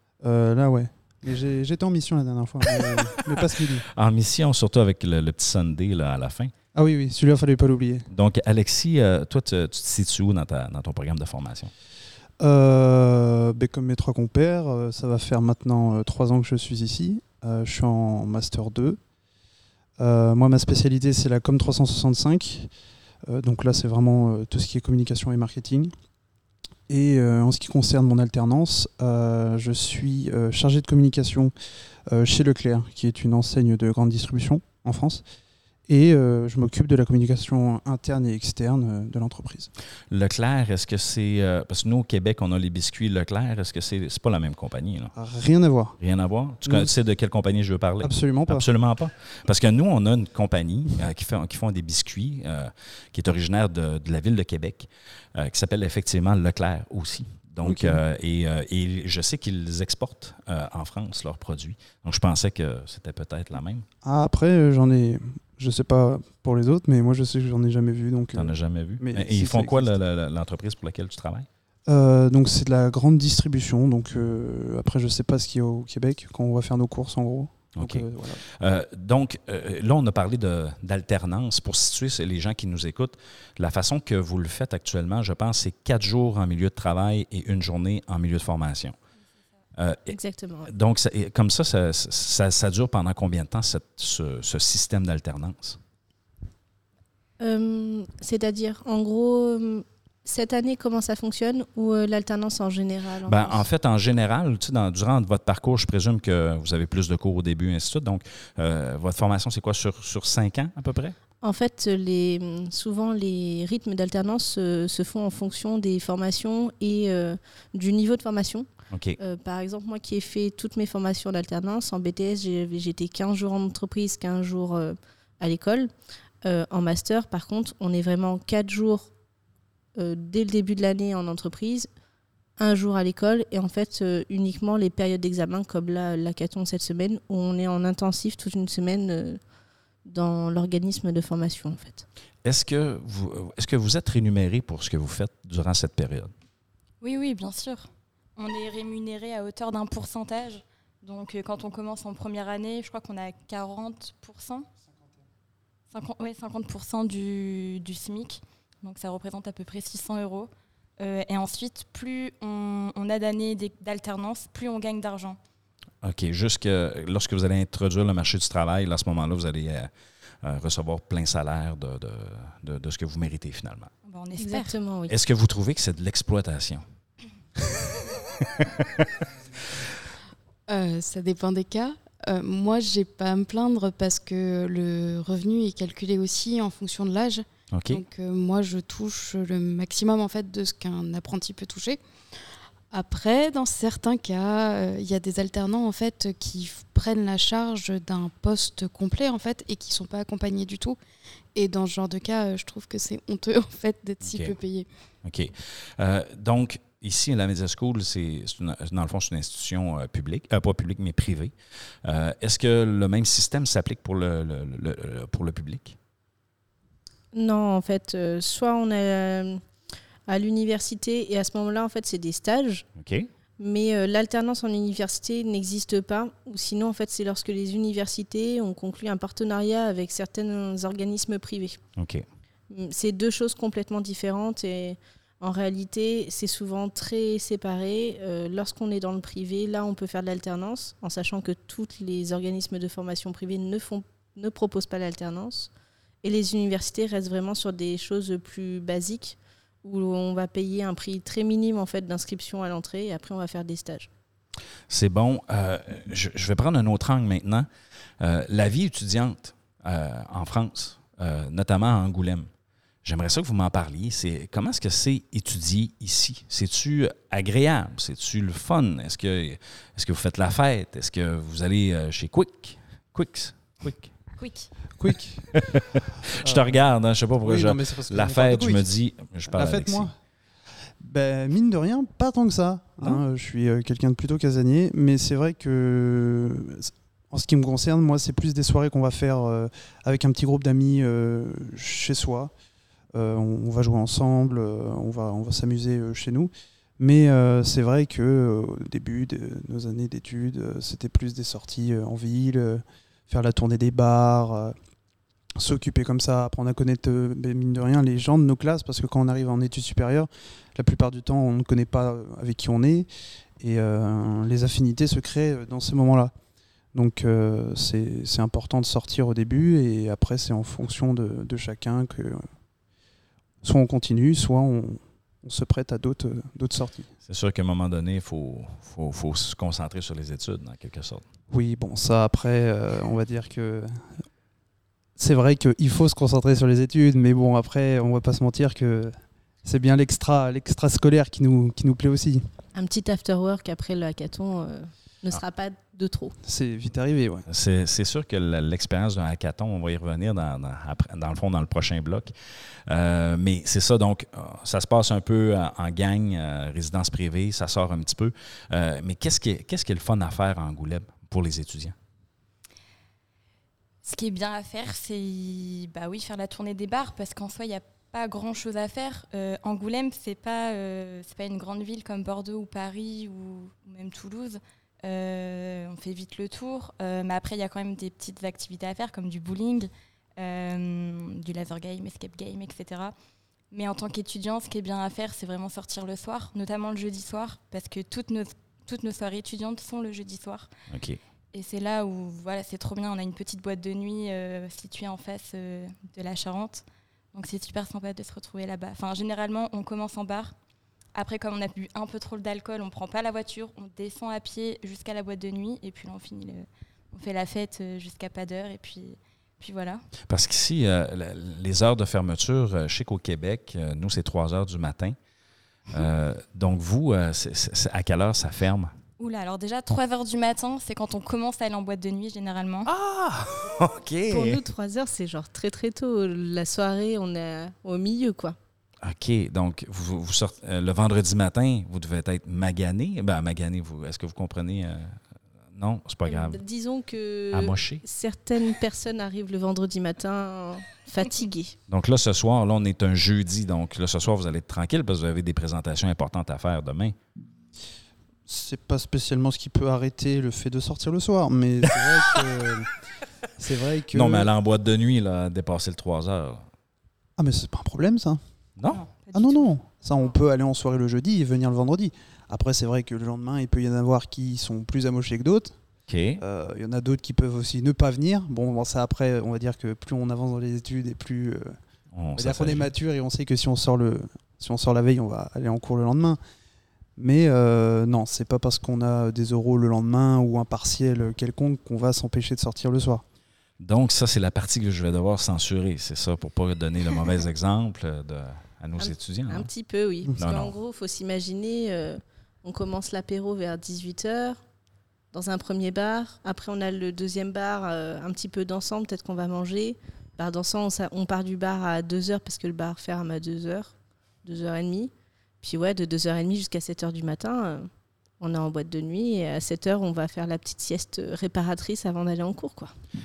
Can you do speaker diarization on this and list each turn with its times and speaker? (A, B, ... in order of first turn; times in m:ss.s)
0:00.2-0:03.8 A
0:02.8-0:06.5 B
0:06.7-0:08.1 A
0:08.1-0:11.7 B
0:12.4-0:19.0 A
0:20.0-0:22.7 A
0:23.3-0:25.9 A
0:26.9-0:31.5 A
0:32.1-0:35.2 A
0:35.9-0:39.7 A
0:40.1-0:45.1 B
0:45.2-0:46.0 A
0:46.0-1:03.8 B
0:46.6-0:46.9 A
0:48.0-0:48.7 A
0:57.6-0:58.0 A
1:04.0-1:10.0 A
1:08.4-1:11.5 B
1:11.9-1:18.4 A
1:17.8-1:29.0 B
1:29.8-1:30.1 B
1:30.1-1:30.7 C
1:30.7-1:35.8 B
1:37.4-1:43.6 C
1:43.3-1:51.2 B
1:51.4-1:58.7 C
1:58.9-1:59.2 B
1:59.2-2:05.9 C
2:06.4-2:09.1 C
2:10.0-2:11.9 C
2:12.6-2:19.4 C
2:20.0-2:22.0 C
2:22.4-2:26.3 B
2:27.0-2:34.7 D
2:35.9-2:45.4 D
2:46.0-2:49.9 B
2:50.4-2:53.9 B
2:54.0-2:54.8 D
2:54.4-2:55.1 C
2:55.1-2:56.8 B
2:58.0-2:59.0 B
3:00.7-3:12.0 E
3:07.7-3:08.0 B
3:12.9-3:21.0 E
3:21.5-3:24.9 E
3:24.2-3:24.5 B
3:25.2-3:36.0 B
3:37.3-3:39.6 C
3:40.3-3:42.9 C
3:43.0-3:43.3 B
3:43.6-3:51.8 C
3:52.0-3:52.2 B
3:52.7-4:05.7 C
4:06.2-4:14.1 C
4:14.9-4:17.7 B
4:18.2-4:22.5 B
4:23.0-4:34.1 B
4:34.4-4:34.7 D
4:35.0-4:35.5 A
4:35.6-4:40.1 B
4:36.4-4:36.8 A
4:37.4-4:38.9 A
4:39.5-4:40.1 A
4:41.0-4:52.5 A
4:53.1-5:04.7 A
5:05.6-5:13.1 A
5:13.6-5:16.3 A
5:16.9-5:22.4 A
5:23.6-5:27.1 A
5:27.2-5:31.2 B
5:31.5-5:34.1 A
5:35.2-5:42.4 A
5:42.7-5:46.3 C
5:46.4-5:47.4 A
5:47.5-5:52.3 B
5:52.9-6:01.9 B
6:04.0-6:23.1 D
6:23.7-6:30.7 D
6:30.9-6:31.2 B
6:31.5-6:40.5 D
6:41.1-6:50.0 D
6:50.3-6:55.2 B
6:55.9-6:58.9 B
6:59.2-7:02.9 D
7:02.8-7:04.6 B
7:04.3-7:08.6 C
7:09.0-7:15.2 B
7:15.7-7:16.6 B
7:16.3-7:21.8 C
7:17.5-7:18.0 B
7:21.9-7:27.1 B
7:28.5-7:32.9 A
7:33.6-7:34.5 A
7:34.1-7:36.6 B
7:37.4-7:38.4 A
7:38.9-7:39.7 D
7:39.3-7:45.8 A
7:46.1-7:46.4 B
7:46.4-7:51.8 A
7:52.1-7:52.9 B
7:52.4-7:56.4 A
7:57.2-8:03.2 A
8:03.8-8:09.7 B
8:09.0-8:14.6 C
8:10.4-8:10.7 B
8:15.3-8:32.9 C